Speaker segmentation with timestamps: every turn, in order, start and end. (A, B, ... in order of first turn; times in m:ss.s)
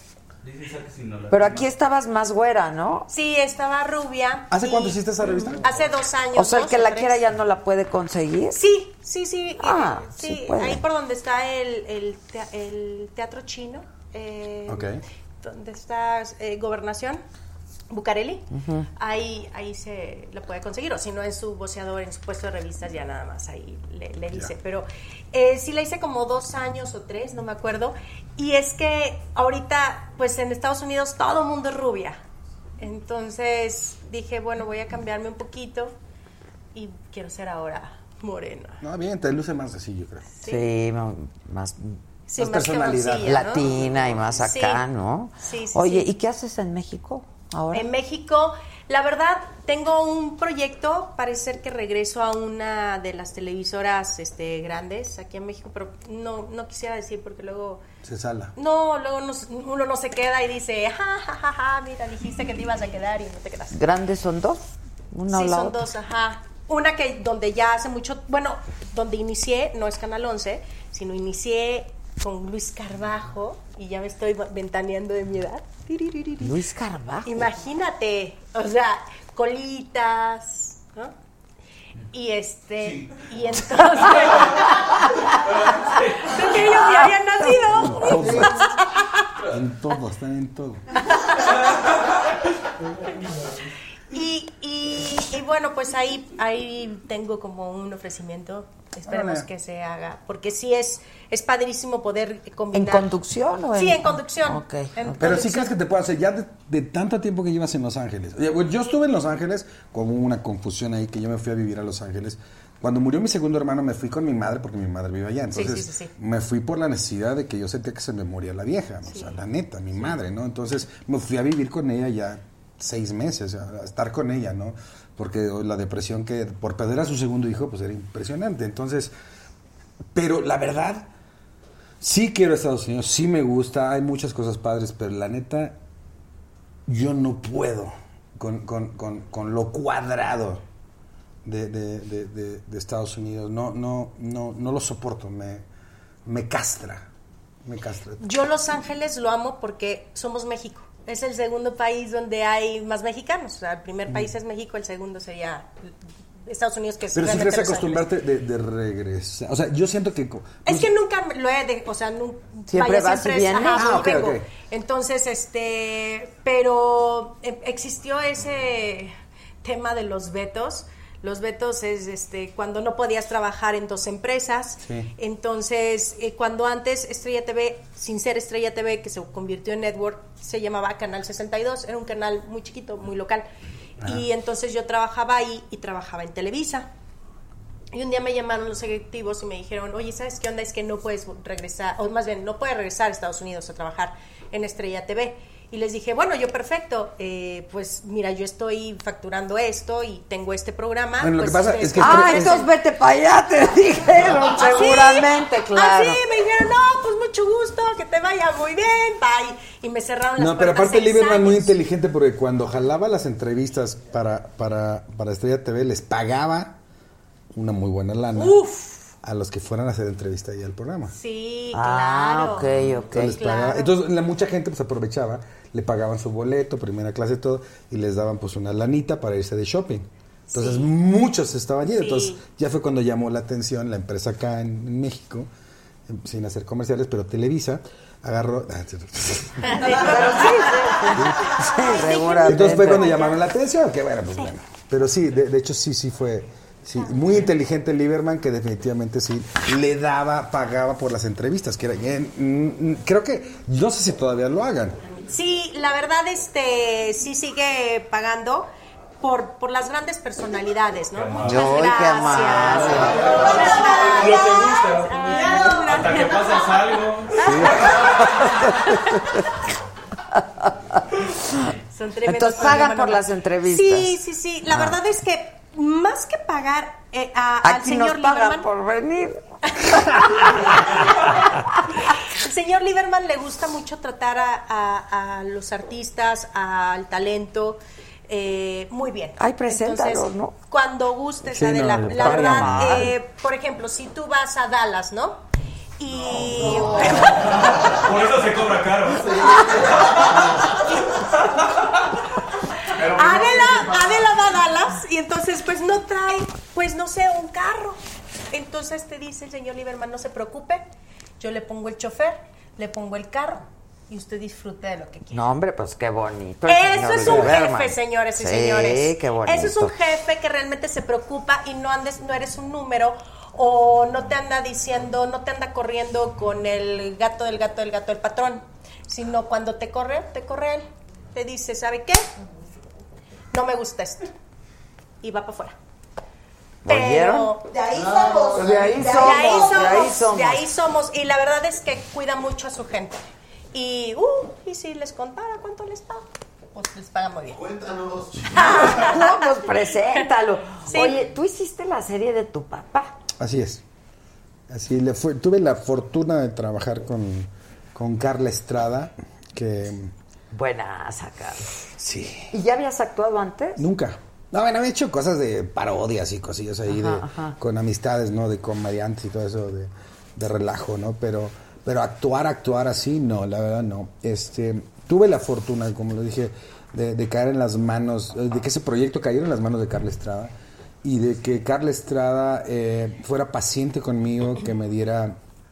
0:00.4-0:01.7 A
0:01.3-0:03.1 B
0:03.1-0:07.2 C
0:04.5-0:05.7 D
0:06.4-0:08.6 B
0:08.5-0:14.9 C
0:09.6-0:10.8 B
0:14.7-0:15.0 D
0:15.4-0:17.2 C
0:17.9-0:32.2 C
0:18.5-0:18.9 B
0:32.8-0:35.9 C
0:36.7-0:38.8 C
0:38.8-0:40.3 D
0:40.4-0:40.7 C
0:40.4-0:42.0 B
0:42.3-0:43.8 C
0:42.4-0:43.4 D
0:43.2-0:47.9 B
0:44.4-0:44.8 C
0:45.4-0:46.1 C
0:47.7-0:57.8 C
0:58.0-0:58.5 D
0:58.6-1:03.8 C
1:03.7-1:05.9 B
1:05.3-1:16.6 C
1:16.4-1:17.5 B
1:17.2-1:21.1 C
1:22.1-1:25.0 C
1:24.3-1:24.7 B
1:25.3-1:26.4 A
1:26.2-1:29.3 C
1:26.6-1:28.1 B
1:27.8-1:28.6 D
1:29.5-1:30.8 D
1:31.0-1:31.6 C
1:34.1-1:43.2 C
1:39.1-1:39.5 D
1:42.7-1:45.3 B
1:43.7-1:45.8 C
1:45.2-2:09.1 D
1:55.5-1:56.1 C
1:59.1-1:59.4 C
2:10.2-2:11.1 D
2:12.0-2:15.8 D
2:16.9-2:20.6 D
2:21.4-2:25.6 D
2:26.3-2:27.0 D
2:27.6-2:28.4 D
2:28.2-2:35.7 C
2:36.5-2:38.1 C
2:37.1-2:40.9 D
2:40.6-3:03.5 C
2:42.7-2:44.0 B
2:43.8-2:44.5 D
2:54.8-2:55.1 D
3:04.0-3:06.9 C
3:07.9-3:22.7 C
3:21.2-3:22.6 D
3:22.0-3:26.2 B
3:24.5-3:31.8 C
3:30.4-3:36.8 D
3:37.5-3:38.6 D
3:38.4-3:39.0 C
3:39.2-3:41.1 D
3:41.1-3:44.0 C
3:41.7-3:43.4 B
3:43.0-3:55.5 D
3:50.5-3:50.9 C
3:51.9-3:52.4 C
3:56.1-3:59.6 D
3:59.6-4:03.4 C
4:00.0-4:03.2 B
4:01.2-4:01.5 D
4:02.4-4:15.0 D
4:15.3-4:26.8 C
4:21.2-4:21.8 A
4:21.4-4:23.7 B
4:22.8-4:28.5 A
4:23.1-4:23.5 E
4:27.4-4:27.9 D
4:28.2-4:29.6 B
4:30.3-4:31.6 B
4:31.9-4:38.7 C
4:32.2-4:34.2 B
4:37.6-4:39.4 B
4:39.8-4:40.9 C
4:41.1-4:41.6 D
4:42.3-4:55.4 C
4:49.4-4:50.5 B
4:51.5-4:52.7 D
4:52.2-4:53.1 B
4:56.0-4:57.7 C
4:56.6-4:58.0 E
4:57.5-5:00.4 A
4:59.2-5:00.6 E
5:01.2-5:02.0 A
5:02.9-5:04.1 A
5:03.0-5:08.0 C
5:03.4-5:03.7 E
5:08.5-5:10.8 C
5:11.4-5:15.5 C
5:15.3-5:19.9 B
5:16.7-5:32.3 C
5:17.2-5:17.6 D
5:33.5-5:34.3 C
5:35.2-5:35.8 C
5:36.8-5:37.5 B
5:36.9-5:37.7 C
5:37.7-5:39.9 F
5:37.9-5:38.9 E
5:38.6-5:40.6 B
5:39.1-5:47.6 C
5:47.5-5:49.2 E
5:48.5-5:49.4 C
5:48.6-5:53.1 B
5:50.8-5:51.3 C
5:53.4-5:53.8 D
5:54.7-6:00.1 D
6:00.5-6:01.7 B
6:02.0-6:02.5 D
6:02.5-6:03.8 B
6:03.8-6:20.5 D
6:06.9-6:07.6 B
6:21.0-6:25.4 D